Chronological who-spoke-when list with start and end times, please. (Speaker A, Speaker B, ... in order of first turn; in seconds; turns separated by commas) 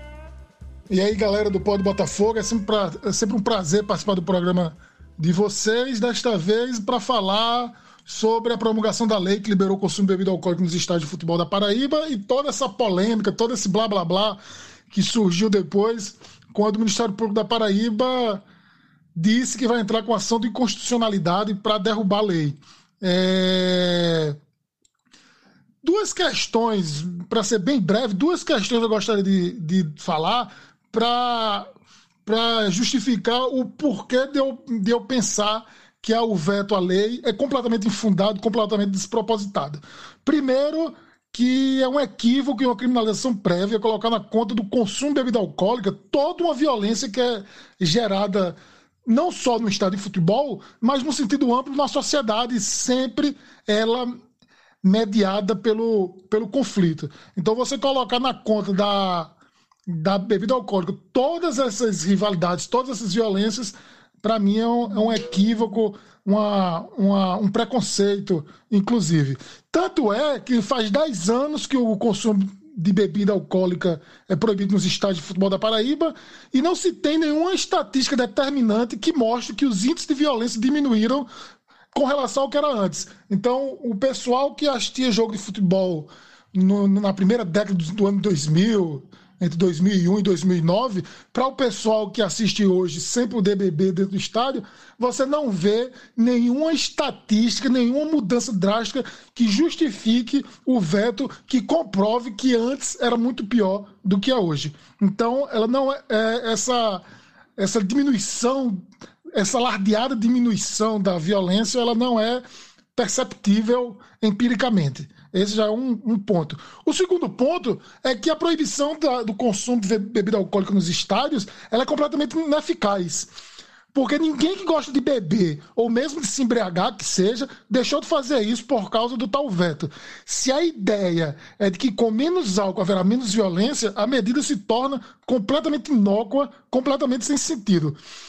Speaker A: 0.9-14.4, Speaker A: 14.9-18.4, Speaker A: 19.2-24.4, Speaker A: 25.8-31.7, Speaker A: 32.3-54.1, Speaker A: 54.8-59.3, Speaker A: 59.9-81.3, Speaker A: 81.9-107.0, Speaker A: 107.6-112.4, Speaker A: 113.0-123.3, Speaker A: 123.9-138.0